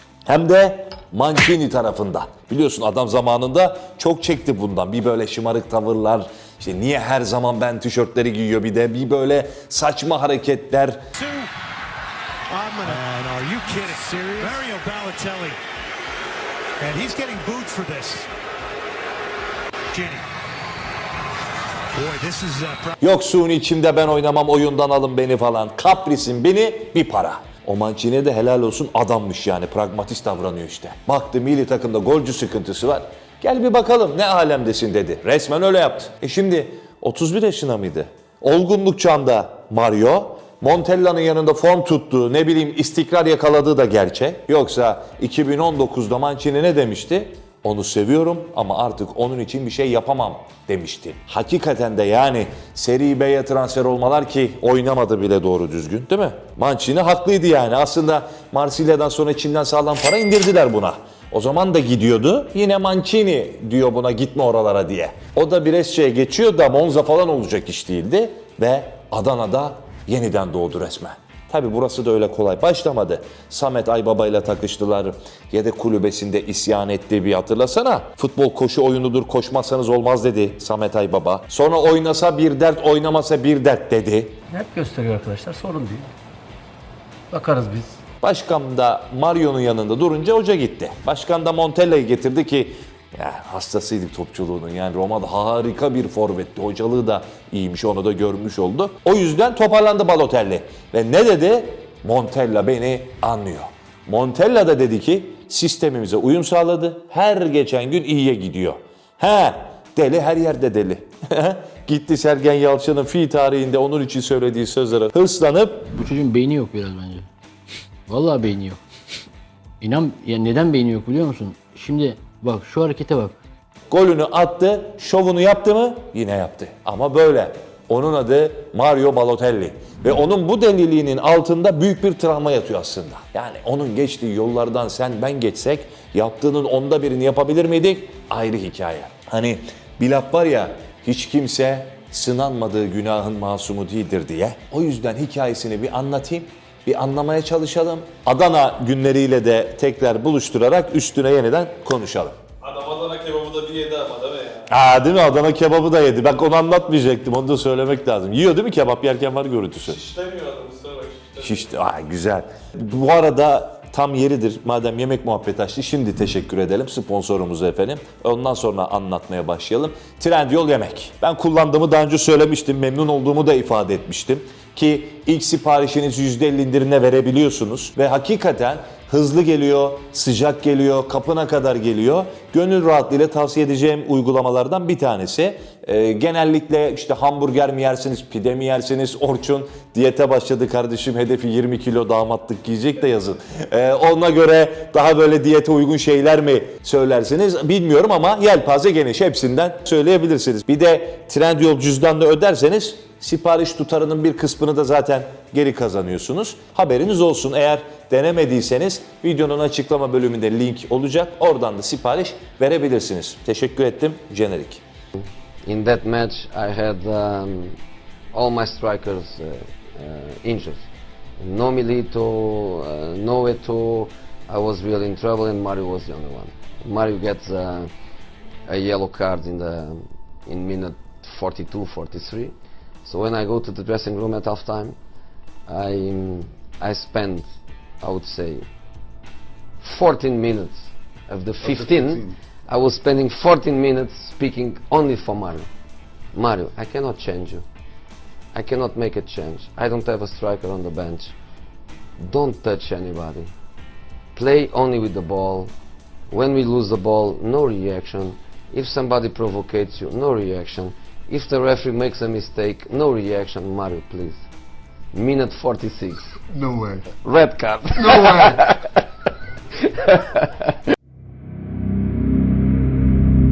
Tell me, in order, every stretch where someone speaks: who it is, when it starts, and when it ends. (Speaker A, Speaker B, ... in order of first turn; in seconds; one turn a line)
Speaker A: 0.3-11.0
Speaker B: 11.2-11.5
Speaker B: 12.5-15.6
Speaker B: 16.8-18.3
Speaker B: 19.9-20.2
Speaker B: 21.9-22.9
Speaker A: 23.0-84.4
Speaker C: 84.5-86.1
Speaker C: 87.3-88.0
Speaker A: 88.2-116.0
Speaker D: 116.0-117.3
Speaker D: 118.1-118.8
Speaker D: 119.8-123.3
Speaker A: 123.9-152.4
Speaker E: 152.7-154.4
Speaker B: 152.7-154.6
Speaker A: 154.7-160.1
Speaker E: 160.1-161.2
Speaker B: 160.2-161.2
Speaker A: 161.3-214.8
Speaker F: 215.2-217.8
Speaker F: 218.3-220.9
Speaker F: 221.4-227.9
Speaker F: 228.7-232.5
Speaker F: 233.1-235.0
Speaker F: 235.7-237.5
Speaker F: 238.0-238.7
Speaker F: 239.8-245.7
Speaker F: 246.3-247.6
Speaker F: 248.5-251.3
Speaker F: 252.2-253.5
Speaker F: 254.3-255.7
Speaker F: 256.3-264.4
Speaker F: 265.1-269.1
Speaker F: 269.8-270.7